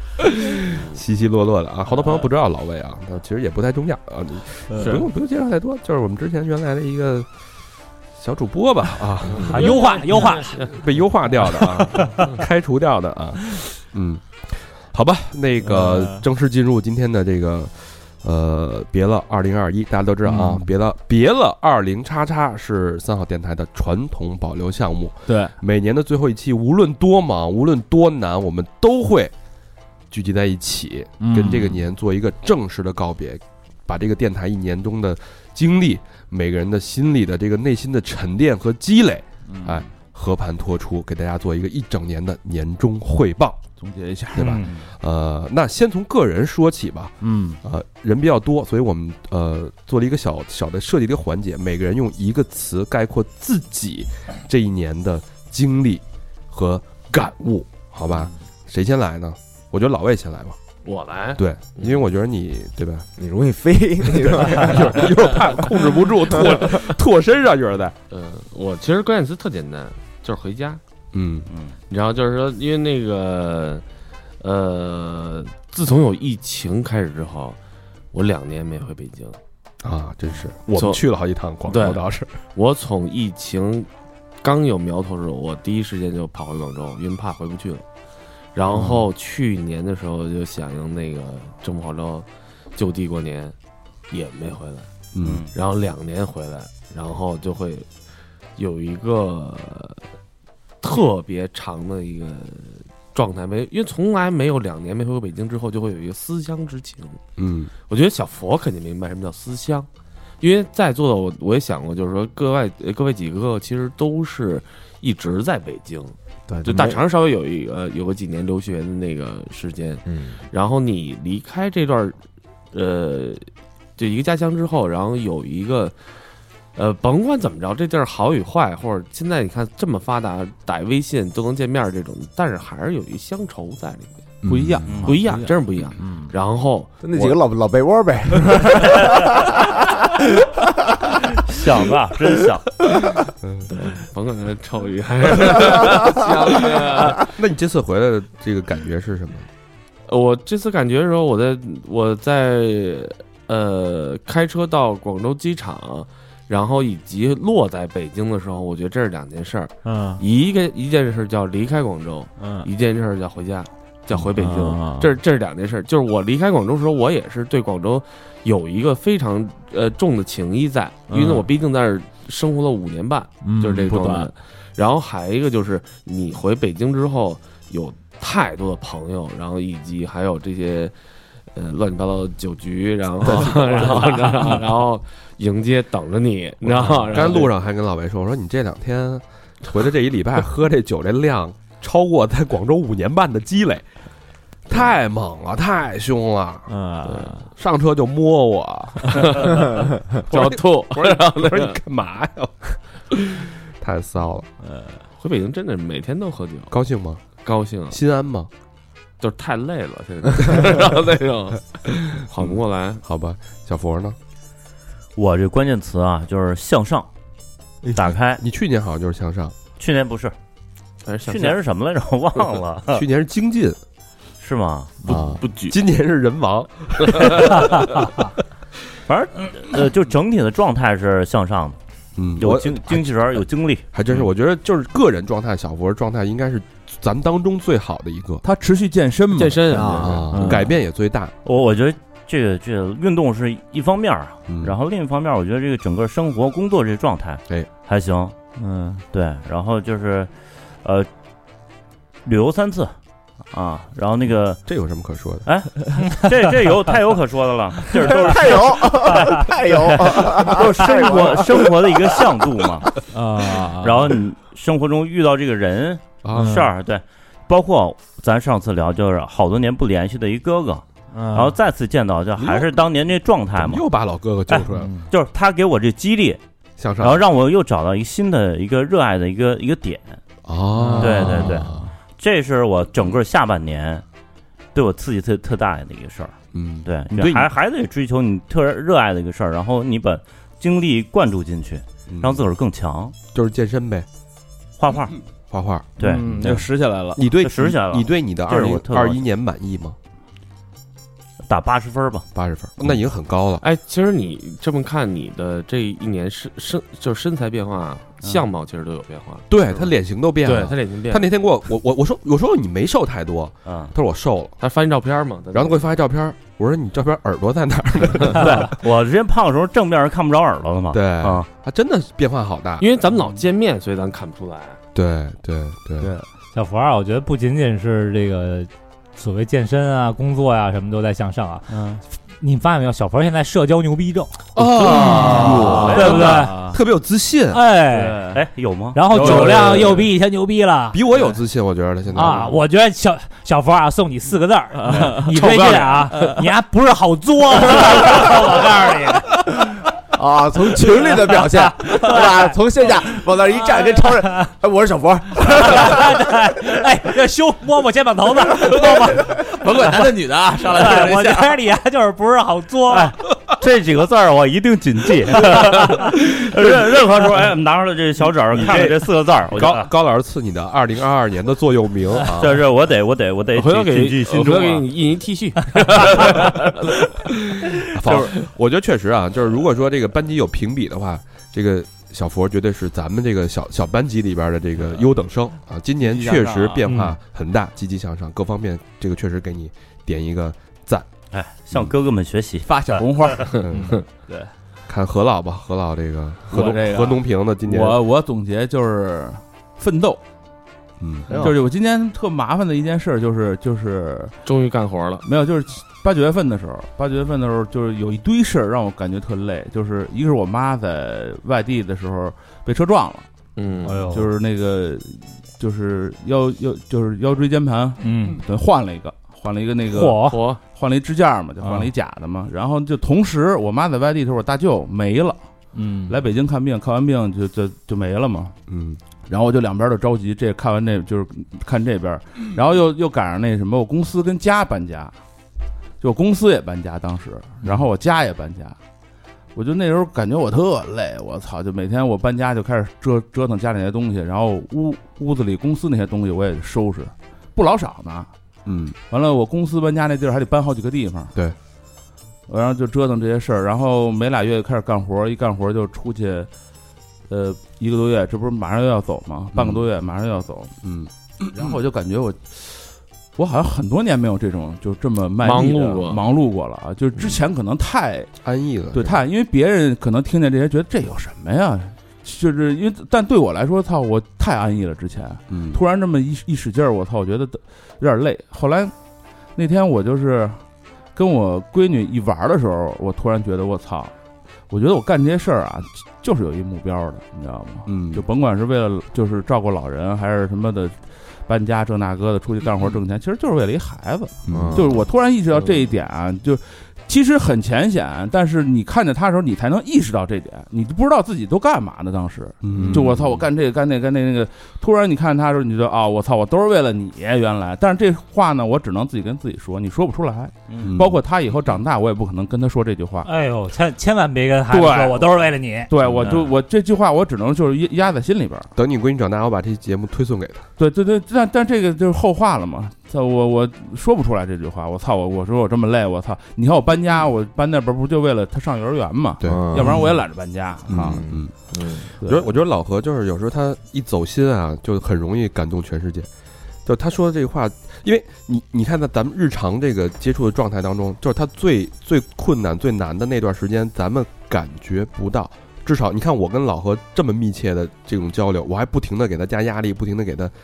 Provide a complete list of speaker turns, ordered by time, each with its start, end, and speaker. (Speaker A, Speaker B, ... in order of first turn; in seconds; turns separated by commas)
Speaker A: 0.2-7.3, Speaker B: 4.8-5.1, Speaker A: 8.2-9.8, Speaker B: 9.3-10.7, Speaker C: 9.4-10.7, Speaker A: 10.6-29.3, Speaker D: 15.6-16.2, Speaker D: 20.2-20.7, Speaker D: 25.3-25.5, Speaker A: 30.1-43.6, Speaker D: 31.2-31.8, Speaker D: 39.5-39.9, Speaker D: 43.8-44.8, Speaker A: 44.3-60.6, Speaker C: 44.4-44.7, Speaker D: 47.2-47.6, Speaker B: 60.8-62.0, Speaker A: 61.4-63.1, Speaker E: 63.2-65.1, Speaker A: 64.1-68.0, Speaker B: 68.1-70.8, Speaker A: 71.1-71.5, Speaker F: 71.5-71.7, Speaker B: 71.9-73.8, Speaker B: 74.4-77.6, Speaker B: 78.1-79.4, Speaker A: 79.8-82.4, Speaker B: 80.7-81.0, Speaker B: 81.7-83.9, Speaker B: 84.4-87.8, Speaker B: 88.5-93.5, Speaker A: 88.7-89.0, Speaker B: 94.1-94.9, Speaker A: 95.1-95.5, Speaker F: 95.2-95.5, Speaker B: 95.5-97.9, Speaker B: 98.6-100.0, Speaker B: 100.8-107.2, Speaker A: 107.4-107.7, Speaker B: 107.9-109.9, Speaker B: 110.4-122.2, Speaker E: 116.5-117.0, Speaker E: 120.1-120.4, Speaker B: 122.7-123.4, Speaker B: 124.0-125.9, Speaker B: 126.7-134.3, Speaker E: 134.4-134.9, Speaker D: 134.4-136.3, Speaker F: 134.9-135.2, Speaker B: 135.0-137.4, Speaker E: 137.0-140.6, Speaker F: 141.4-142.7, Speaker A: 143.4-143.7, Speaker B: 143.7-147.3, Speaker A: 146.8-149.5, Speaker B: 150.1-180.9, Speaker D: 159.8-160.2, Speaker D: 162.4-162.7, Speaker D: 164.3-165.1, Speaker D: 171.1-171.5, Speaker D: 173.4-174.3, Speaker B: 181.5-187.5, Speaker D: 183.8-184.5, Speaker A: 186.6-193.8, Speaker A: 194.7-196.7, Speaker D: 196.7-197.5, Speaker A: 197.5-204.5, Speaker B: 199.2-201.8, Speaker D: 204.6-205.0, Speaker B: 205.1-206.7, Speaker A: 206.7-207.3, Speaker B: 207.4-208.0, Speaker A: 207.9-208.5, Speaker B: 209.2-213.0, Speaker A: 212.3-214.2, Speaker F: 215.2-217.1, Speaker F: 217.9-218.4, Speaker A: 218.3-219.5, Speaker F: 219.8-220.3, Speaker B: 221.0-221.6, Speaker F: 221.2-223.0, Speaker A: 222.9-223.8, Speaker F: 224.4-224.9, Speaker B: 225.0-225.7, Speaker A: 225.1-228.2, Speaker F: 229.1-231.8, Speaker A: 232.2-233.1, Speaker F: 232.3-233.8, Speaker A: 233.9-238.4, Speaker D: 238.4-240.8, Speaker B: 239.3-240.5, Speaker E: 239.7-240.3, Speaker A: 240.0-241.3, Speaker F: 241.4-248.3, Speaker A: 244.5-244.7, Speaker D: 248.6-249.0, Speaker F: 249.1-250.3, Speaker F: 250.8-251.1, Speaker F: 252.2-252.9, Speaker F: 253.5-254.7, Speaker A: 254.7-255.5, Speaker F: 255.4-262.9, Speaker E: 257.9-261.9, Speaker D: 263.1-264.2, Speaker F: 263.6-273.9, Speaker A: 266.2-266.6, Speaker D: 266.3-266.7, Speaker D: 271.1-271.6, Speaker A: 272.4-272.8, Speaker A: 273.6-274.9, Speaker F: 274.5-276.4, Speaker D: 274.7-275.1, Speaker A: 276.8-277.2, Speaker F: 277.0-280.2, Speaker A: 280.4-281.9, Speaker D: 280.8-281.9, Speaker F: 281.0-284.0, Speaker F: 284.7-293.1, Speaker A: 286.5-287.5, Speaker A: 292.1-292.4, Speaker A: 293.3-294.1, Speaker F: 294.8-295.2, Speaker A: 295.5-296.6, Speaker F: 296.0-296.6, Speaker D: 296.0-297.4, Speaker A: 297.1-300.0, Speaker F: 297.4-299.2, Speaker F: 301.4-302.2, Speaker A: 302.3-303.6, Speaker B: 303.6-311.3, Speaker A: 309.5-314.6, Speaker F: 313.6-313.9, Speaker B: 314.6-315.9, Speaker A: 315.5-318.8, Speaker F: 318.3-321.5, Speaker A: 320.9-322.9, Speaker B: 322.8-324.8, Speaker A: 324.9-326.1, Speaker D: 326.0-326.3, Speaker C: 326.5-331.7, Speaker D: 331.7-332.0, Speaker C: 332.4-334.4, Speaker A: 334.6-337.6, Speaker D: 334.7-336.8, Speaker C: 335.0-336.5, Speaker F: 335.9-336.5, Speaker C: 337.5-338.2, Speaker D: 337.9-338.4, Speaker F: 338.3-339.0, Speaker C: 338.9-341.0, Speaker D: 339.1-340.1, Speaker A: 339.1-339.6, Speaker A: 340.9-342.5, Speaker D: 341.1-341.4, Speaker C: 342.1-349.6, Speaker D: 342.2-342.5, Speaker D: 344.8-346.4, Speaker E: 350.1-356.2, Speaker C: 351.2-352.6, Speaker C: 355.6-359.9, Speaker D: 359.5-361.6, Speaker C: 360.7-363.1, Speaker F: 362.9-369.9, Speaker A: 368.5-372.6, Speaker F: 372.2-374.8, Speaker B: 373.5-377.1, Speaker A: 377.9-391.1, Speaker D: 386.0-387.2, Speaker F: 391.3-393.0, Speaker D: 392.6-394.5, Speaker A: 393.6-394.0, Speaker A: 394.9-398.0, Speaker D: 396.5-400.2, Speaker A: 401.0-401.5, Speaker D: 401.4-404.4, Speaker B: 404.4-405.2, Speaker D: 405.2-413.3, Speaker B: 413.6-414.1, Speaker D: 413.8-425.4, Speaker C: 413.8-414.2, Speaker C: 418.0-418.4, Speaker C: 419.9-420.4, Speaker B: 420.2-420.6, Speaker C: 421.6-421.9, Speaker C: 425.7-426.2, Speaker D: 426.0-428.5, Speaker A: 428.7-429.0, Speaker D: 429.3-435.1, Speaker D: 436.0-438.8, Speaker D: 439.5-448.3, Speaker A: 448.6-449.0, Speaker D: 449.1-451.3, Speaker D: 452.5-456.5, Speaker D: 457.3-460.7, Speaker A: 460.8-461.8, Speaker D: 461.5-468.3, Speaker B: 465.4-466.2, Speaker A: 468.4-469.2, Speaker D: 468.9-478.9, Speaker A: 475.5-475.8, Speaker D: 479.5-480.6, Speaker D: 481.1-484.1, Speaker D: 484.7-513.3, Speaker A: 487.9-488.2, Speaker A: 494.5-494.9, Speaker E: 494.5-494.9, Speaker A: 502.6-503.4, Speaker E: 502.7-503.0, Speaker A: 510.8-511.2, Speaker C: 513.2-515.9, Speaker D: 514.7-518.7, Speaker F: 516.2-516.5, Speaker A: 518.7-520.6, Speaker D: 520.8-531.2, Speaker A: 529.4-530.0, Speaker E: 529.5-530.0, Speaker A: 530.9-531.6, Speaker E: 530.9-531.4, Speaker A: 532.2-536.3, Speaker D: 532.2-532.5, Speaker A: 536.8-550.5